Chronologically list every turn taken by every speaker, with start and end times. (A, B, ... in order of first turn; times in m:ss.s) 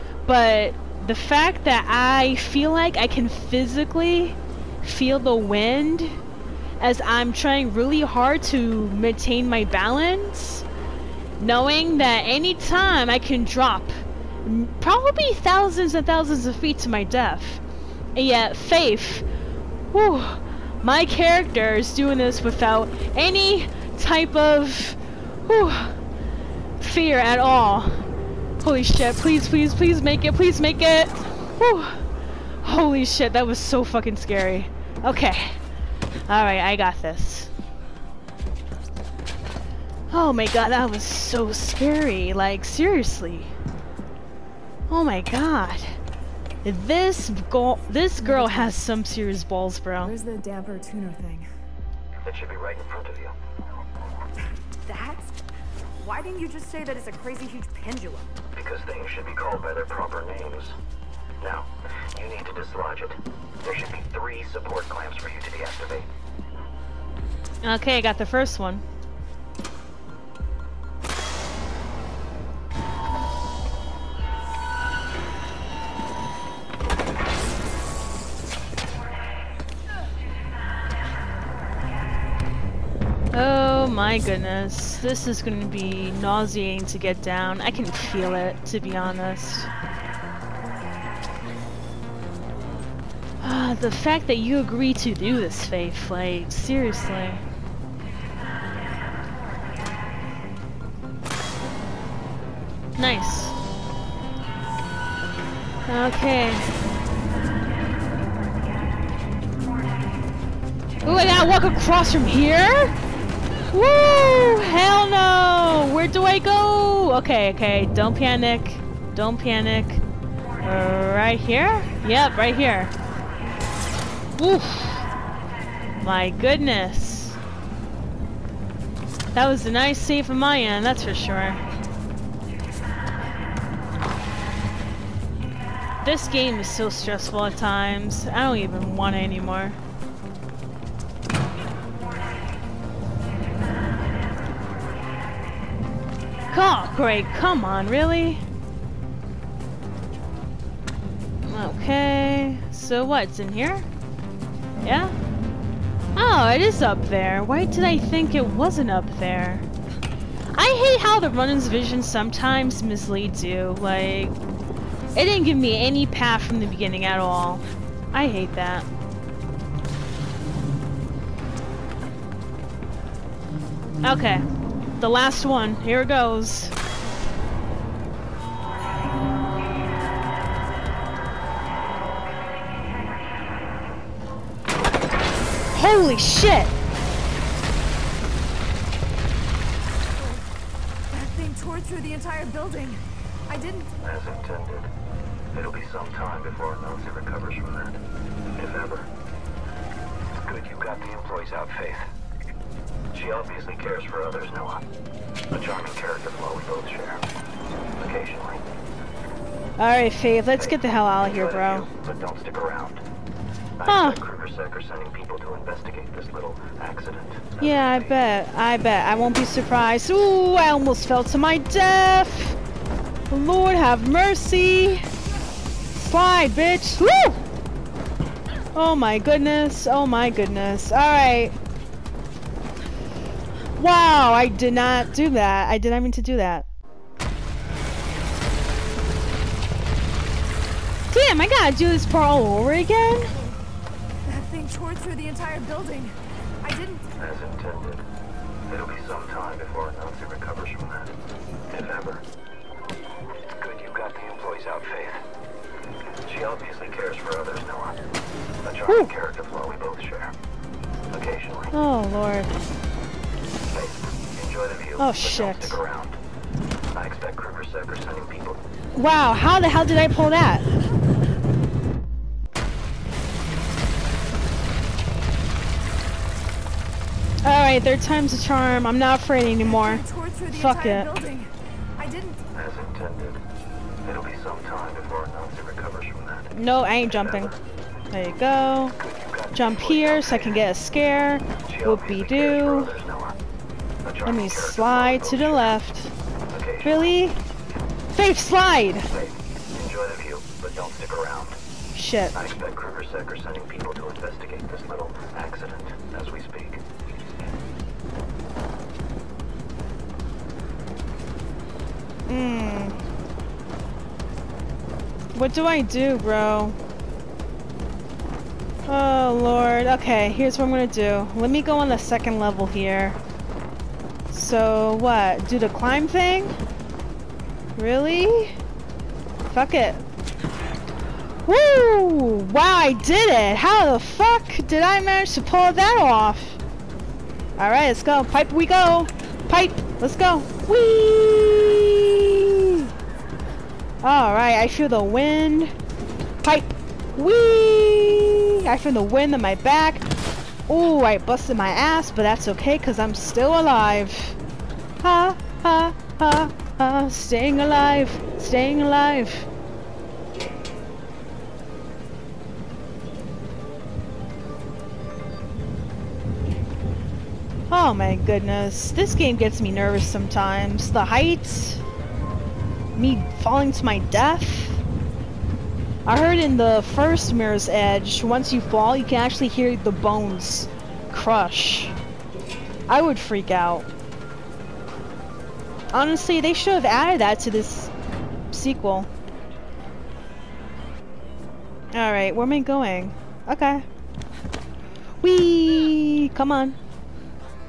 0:00.3-0:06.2 A
0:06.8-0:10.7 A
0:11.4-0:13.9 A
0:14.4-0:17.6 A
0:18.2-0:19.2 A
0:19.9-0:26.0 A
0:26.8-0:27.9 A
0:28.6-0:32.0 A
0:32.6-0:35.6 A
0:36.3-0:37.5 A
0:40.1-0:43.5 A
0:44.9-0:46.0 A
0:46.6-0:50.1 A
0:48.2-0:48.8 B
0:50.0-0:51.5 B
0:52.2-0:53.4 C
0:54.8-0:55.3 B
0:56.0-0:58.3 B
0:58.5-1:00.8 C
1:01.4-1:06.1 C
1:07.6-1:08.8 A
1:23.3-1:29.7 A
1:33.4-1:37.4 A
1:43.0-1:43.6 A
1:45.9-1:46.7 A
1:51.0-1:53.0 A
1:53.7-2:00.0 A
2:00.6-2:02.9 A
2:04.4-2:05.1 A
2:06.0-2:07.4 A
2:09.3-2:11.6 A
2:16.0-2:19.8 A
2:26.5-2:28.4 A
2:31.4-2:33.9 A
2:34.8-2:35.2 A
2:36.2-2:39.7 A
2:40.6-2:44.4 A
2:45.2-2:48.9 A
2:54.0-2:54.4 A
2:55.0-2:56.7 A
3:05.7-3:06.7 A
3:11.1-3:13.9 B
3:14.0-3:14.9 C
3:15.5-3:18.0 C
3:18.5-3:19.1 C
3:20.4-3:22.1 C
3:23.1-3:24.9 C
3:25.5-3:27.2 C
3:28.0-3:28.6 C
3:29.8-3:31.9 A
3:30.5-3:33.0 C
3:33.8-3:38.2 C
3:33.9-3:34.2 A
3:37.6-3:42.6 A
3:43.3-3:45.0 A
3:46.0-3:47.4 A
3:48.8-3:51.6 A
3:53.8-3:56.7 A
4:01.1-4:03.3 A
4:04.3-4:07.1 B
4:07.2-4:08.1 C
4:08.7-4:11.2 C
4:11.7-4:12.2 C
4:13.4-4:15.3 C
4:16.2-4:18.0 C
4:18.6-4:20.4 C
4:18.9-4:19.1 A
4:21.1-4:21.7 C
4:21.7-4:22.5 A
4:23.7-4:26.2 C
4:25.0-4:25.8 A
4:26.9-4:28.6 C
4:29.0-4:30.7 A
4:37.4-4:41.1 A
4:39.6-4:42.4 B
4:42.5-4:43.4 C
4:44.0-4:47.6 C
4:46.5-4:47.5 A
4:48.1-4:49.0 A
4:49.0-4:50.6 C
4:49.5-4:52.9 A
4:51.6-4:53.4 C
4:54.0-4:55.8 C
4:54.2-4:56.1 A
4:56.5-4:57.2 C
4:56.8-4:57.4 A
4:58.1-4:59.1 A
4:59.0-5:01.6 C
5:02.0-5:02.5 A
5:02.3-5:06.8 C
5:12.3-5:13.0 A
5:15.4-5:16.8 A
5:18.9-5:23.2 A
5:24.3-5:26.6 A
5:27.8-5:28.6 A
5:29.5-5:30.0 A
5:31.5-5:36.6 A
5:37.6-5:42.9 A
5:44.0-5:45.7 A
5:46.4-5:50.1 A
5:50.7-5:54.4 A
5:55.0-5:59.5 A
6:07.7-6:11.8 A
6:13.0-6:14.8 A
6:16.1-6:22.0 A
6:22.9-6:23.9 A
6:25.9-6:27.9 A
6:28.5-6:29.1 A
6:31.9-6:33.9 A
6:35.2-6:36.8 A